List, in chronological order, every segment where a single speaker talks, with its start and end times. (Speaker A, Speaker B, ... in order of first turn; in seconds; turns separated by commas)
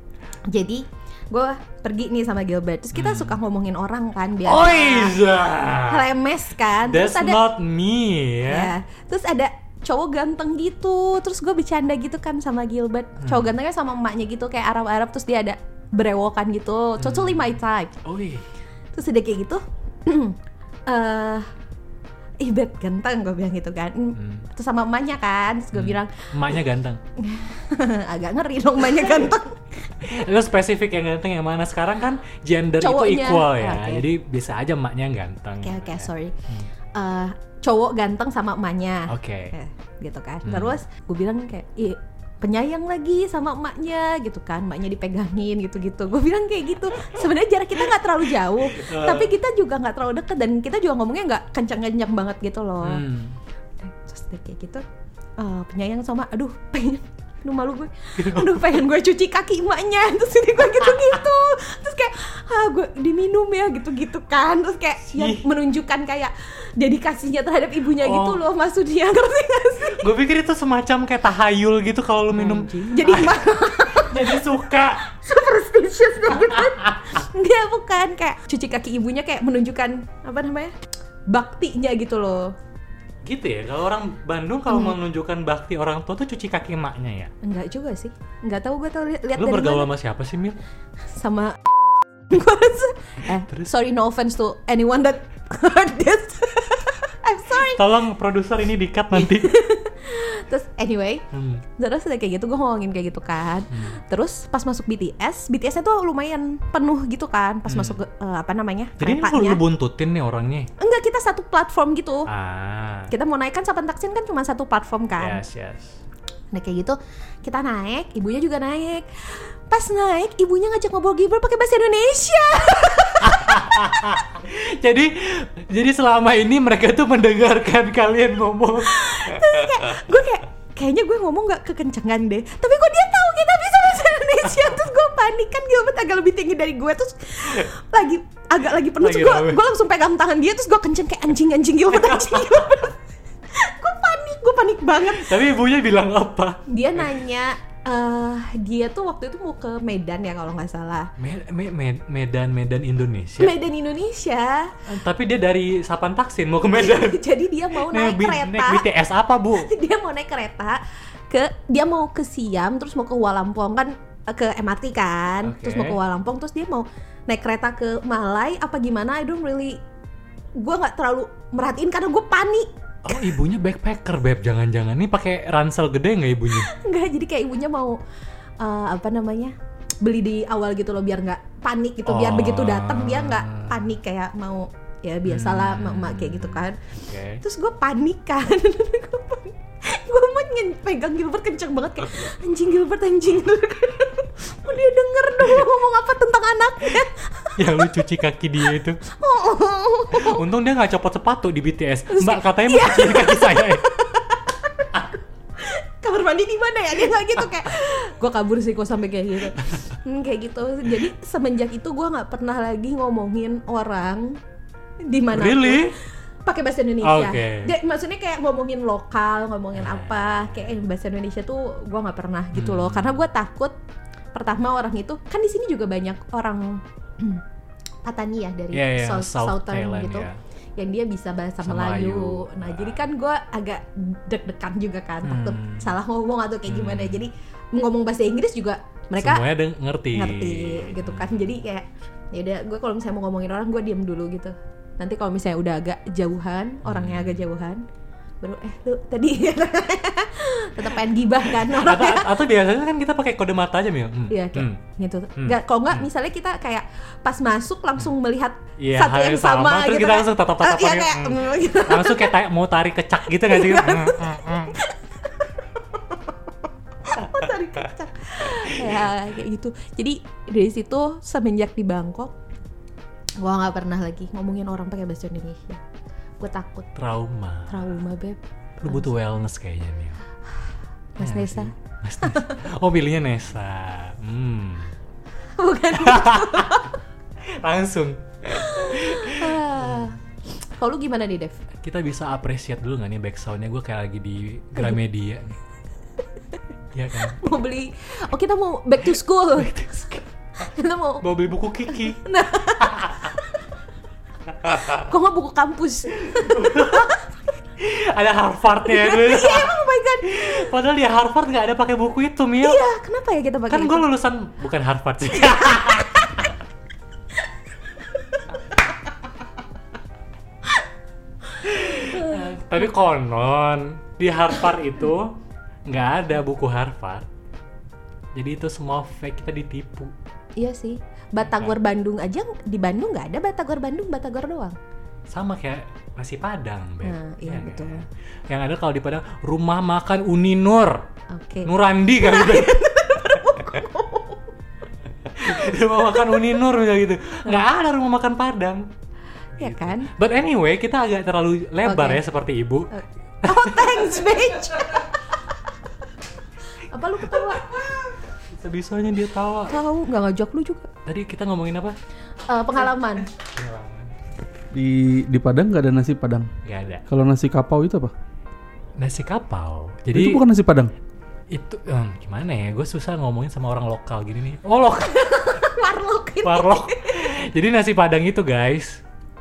Speaker A: 0.5-5.2, Speaker B: 2.9-3.4, Speaker B: 4.5-6.1, Speaker A: 5.8-7.4, Speaker B: 6.9-8.7, Speaker A: 8.5-18.0, Speaker B: 13.2-13.5, Speaker B: 17.0-18.4, Speaker A: 18.9-21.5, Speaker A: 22.4-26.3, Speaker B: 24.2-24.5, Speaker B: 25.7-27.0, Speaker A: 27.2-29.6, Speaker B: 30.0-36.7, Speaker A: 32.8-34.1, Speaker A: 35.6-36.4, Speaker A: 36.9-53.0, Speaker B: 39.1-39.5, Speaker B: 40.5-40.8, Speaker B: 48.6-49.3, Speaker B: 52.8-53.4, Speaker A: 53.8-54.8, Speaker A: 55.4-70.1, Speaker B: 58.2-58.8, Speaker B: 65.1-65.5, Speaker B: 68.0-68.4, Speaker B: 69.8-75.0, Speaker A: 72.3-74.5, Speaker A: 75.0-80.8, Speaker B: 76.4-77.0, Speaker A: 81.3-82.5, Speaker B: 83.2-87.3, Speaker A: 84.7-85.0, Speaker A: 87.4-89.9, Speaker B: 89.4-90.6, Speaker A: 91.1-97.9, Speaker B: 97.6-99.6, Speaker A: 99.2-109.6, Speaker B: 101.3-101.7, Speaker B: 107.7-108.0, Speaker B: 109.0-110.7, Speaker A: 110.8-112.3, Speaker B: 112.3-113.1, Speaker A: 113.1-115.4, Speaker B: 115.2-116.0, Speaker A: 116.5-124.0, Speaker B: 123.2-129.5, Speaker A: 128.8-142.9, Speaker B: 139.0-139.6, Speaker B: 141.9-142.9, Speaker A: 143.5-145.4, Speaker B: 145.1-147.1, Speaker A: 146.7-151.1, Speaker B: 151.2-153.6, Speaker A: 153.4-154.8, Speaker B: 154.9-159.7, Speaker A: 156.7-158.9, Speaker A: 159.6-169.8, Speaker B: 165.4-166.0, Speaker A: 170.6-173.3, Speaker B: 173.1-176.7, Speaker A: 176.5-178.0, Speaker A: 178.6-186.9, Speaker B: 182.1-183.9, Speaker B: 185.3-187.4, Speaker A: 187.4-197.8, Speaker B: 197.6-199.0, Speaker A: 199.0-200.4, Speaker B: 200.1-203.8, Speaker A: 202.1-204.9, Speaker A: 205.6-214.4, Speaker A: 215.0-223.8, Speaker B: 215.3-215.9, Speaker B: 217.0-217.7, Speaker B: 219.8-220.8, Speaker B: 222.5-223.2, Speaker A: 224.3-227.4, Speaker A: 228.0-239.4, Speaker B: 228.7-230.4, Speaker B: 231.7-233.0, Speaker B: 235.2-235.9, Speaker B: 236.7-237.3, Speaker B: 239.2-241.6, Speaker A: 240.1-247.8, Speaker B: 246.8-247.4, Speaker A: 248.4-252.3, Speaker B: 251.6-254.8, Speaker A: 254.3-262.4, Speaker B: 255.4-256.1, Speaker B: 258.8-264.8, Speaker A: 263.4-266.2, Speaker A: 267.0-272.3, Speaker A: 273.4-275.8, Speaker A: 276.4-276.9, Speaker B: 277.0-277.9, Speaker A: 277.7-279.1, Speaker B: 278.8-280.2, Speaker A: 281.2-282.6, Speaker B: 281.2-284.9, Speaker A: 285.6-287.0, Speaker B: 285.9-286.8, Speaker B: 287.6-289.8, Speaker A: 288.6-290.2, Speaker A: 290.8-291.6, Speaker B: 291.8-295.6, Speaker B: 296.9-297.4, Speaker A: 297.4-299.8, Speaker B: 299.6-300.2, Speaker A: 300.6-301.3, Speaker B: 301.2-302.2, Speaker A: 301.9-303.6, Speaker B: 302.8-303.3, Speaker B: 304.6-305.0, Speaker A: 304.9-307.2, Speaker B: 306.4-307.1, Speaker B: 307.8-312.8, Speaker A: 308.9-310.7, Speaker A: 312.6-314.1, Speaker B: 313.7-316.5, Speaker B: 321.6-327.3, Speaker A: 321.9-322.4, Speaker B: 328.4-330.1, Speaker A: 330.6-334.8, Speaker B: 331.4-331.8, Speaker B: 335.3-341.1, Speaker A: 337.0-338.0, Speaker A: 341.3-344.4, Speaker B: 341.7-343.7, Speaker B: 345.3-348.9, Speaker B: 349.6-354.4, Speaker A: 349.6-350.1, Speaker A: 351.9-352.2, Speaker A: 352.9-355.1, Speaker A: 356.8-357.9, Speaker B: 357.4-358.0, Speaker B: 358.5-359.8, Speaker A: 359.7-360.9, Speaker B: 361.1-362.0, Speaker A: 362.5-363.3, Speaker B: 363.4-364.1, Speaker C: 364.7-366.5, Speaker B: 366.6-367.0, Speaker C: 367.1-368.1, Speaker B: 369.0-370.4, Speaker C: 370.1-370.9, Speaker B: 371.5-375.5, Speaker A: 375.1-377.3, Speaker B: 376.4-379.0